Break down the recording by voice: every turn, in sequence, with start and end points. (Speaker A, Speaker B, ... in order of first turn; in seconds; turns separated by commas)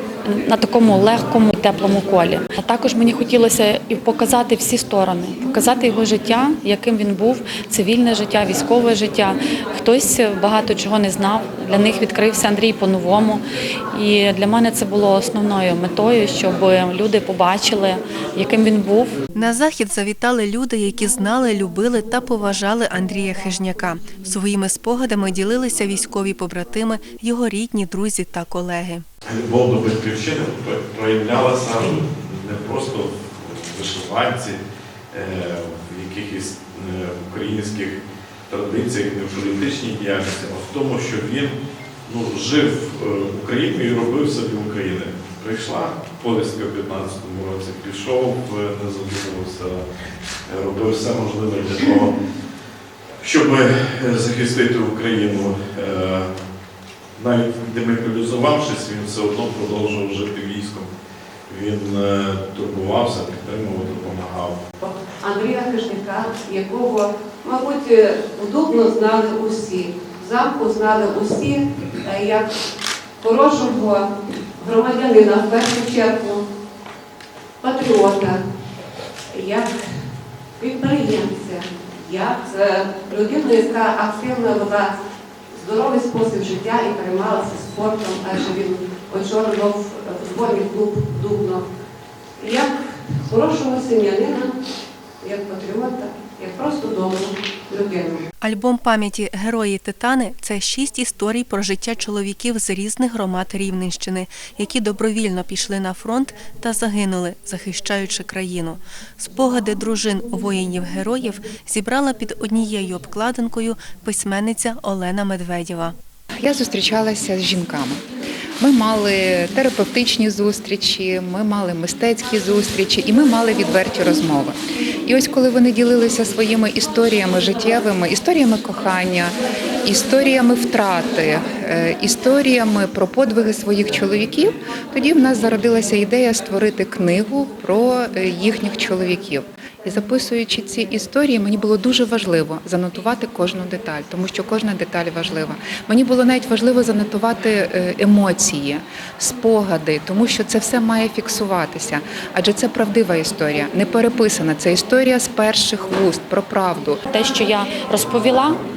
Speaker A: 0.2-19.2, Speaker B: 19.3-29.0, Speaker C: 29.3-34.6, Speaker C: 35.1-41.5, Speaker C: 42.1-49.8, Speaker C: 50.5-52.1, Speaker C: 53.2-56.3, Speaker C: 57.1-60.9, Speaker C: 61.5-64.6, Speaker D: 64.8-72.5, Speaker D: 73.2-76.4, Speaker D: 77.6-78.4, Speaker D: 79.3-80.1, Speaker D: 80.6-84.9, Speaker D: 85.5-91.6, Speaker D: 92.4-94.5, Speaker D: 95.2-98.3, Speaker B: 98.4-116.0, Speaker E: 116.4-118.0, Speaker E: 118.6-129.3, Speaker E: 129.8-157.0, Speaker A: 157.1-158.6